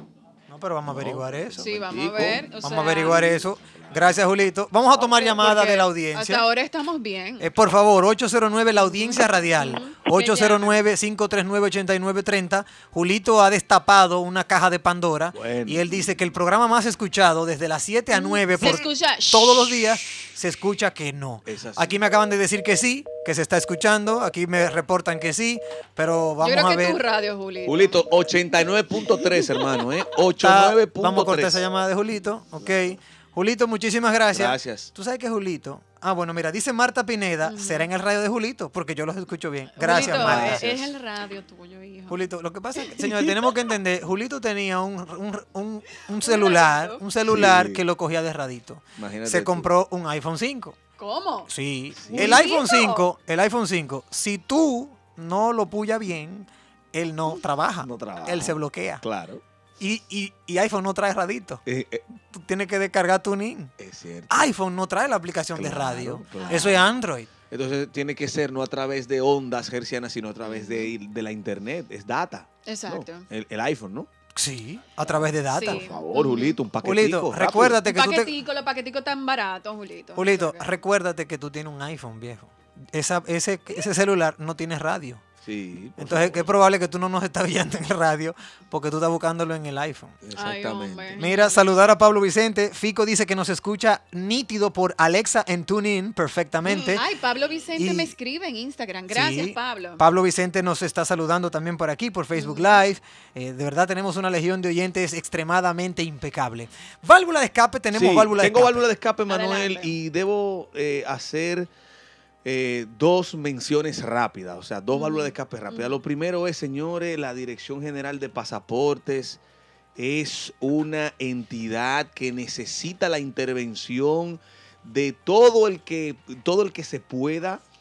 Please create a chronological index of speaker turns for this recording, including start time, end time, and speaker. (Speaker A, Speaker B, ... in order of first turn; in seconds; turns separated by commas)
Speaker A: 0.5-1.6, Speaker B: 0.8-2.5, Speaker C: 1.6-3.2, Speaker A: 2.5-6.4, Speaker B: 3.0-4.2, Speaker C: 5.0-7.5, Speaker A: 7.4-27.0, Speaker C: 8.8-10.8, Speaker B: 15.3-16.1, Speaker C: 18.1-19.9, Speaker B: 21.4-21.9, Speaker C: 26.4-28.0, Speaker B: 27.6-31.6, Speaker A: 30.3-40.6, Speaker B: 32.6-33.0, Speaker B: 34.3-34.9, Speaker C: 37.4-37.9, Speaker C: 39.8-43.6, Speaker B: 40.1-40.9, Speaker A: 42.1-50.8, Speaker C: 46.2-47.0, Speaker B: 47.3-47.8, Speaker B: 49.0-49.7, Speaker C: 51.0-51.5, Speaker A: 51.5-59.0, Speaker B: 52.0-52.4, Speaker C: 52.0-53.0, Speaker B: 57.8-59.4, Speaker A: 59.8-61.6, Speaker B: 61.6-62.1, Speaker A: 62.3-63.7, Speaker B: 63.8-64.5, Speaker A: 64.3-67.3, Speaker B: 65.5-66.9, Speaker C: 66.3-66.8, Speaker B: 67.5-74.1, Speaker C: 70.4-70.9, Speaker C: 72.7-73.2, Speaker A: 74.3-75.8, Speaker C: 75.5-76.5, Speaker B: 75.8-77.8, Speaker A: 76.8-78.3, Speaker C: 77.9-80.7, Speaker A: 80.1-85.2, Speaker B: 85.4-86.5, Speaker A: 86.0-90.2, Speaker B: 90.2-91.2, Speaker C: 90.3-91.6, Speaker A: 91.2-97.0, Speaker C: 96.8-100.0, Speaker A: 97.8-98.1, Speaker A: 99.1-108.8, Speaker C: 102.3-102.8, Speaker B: 107.9-111.7, Speaker C: 109.3-110.0, Speaker B: 112.4-119.4, Speaker C: 114.9-116.0, Speaker B: 120.0-127.6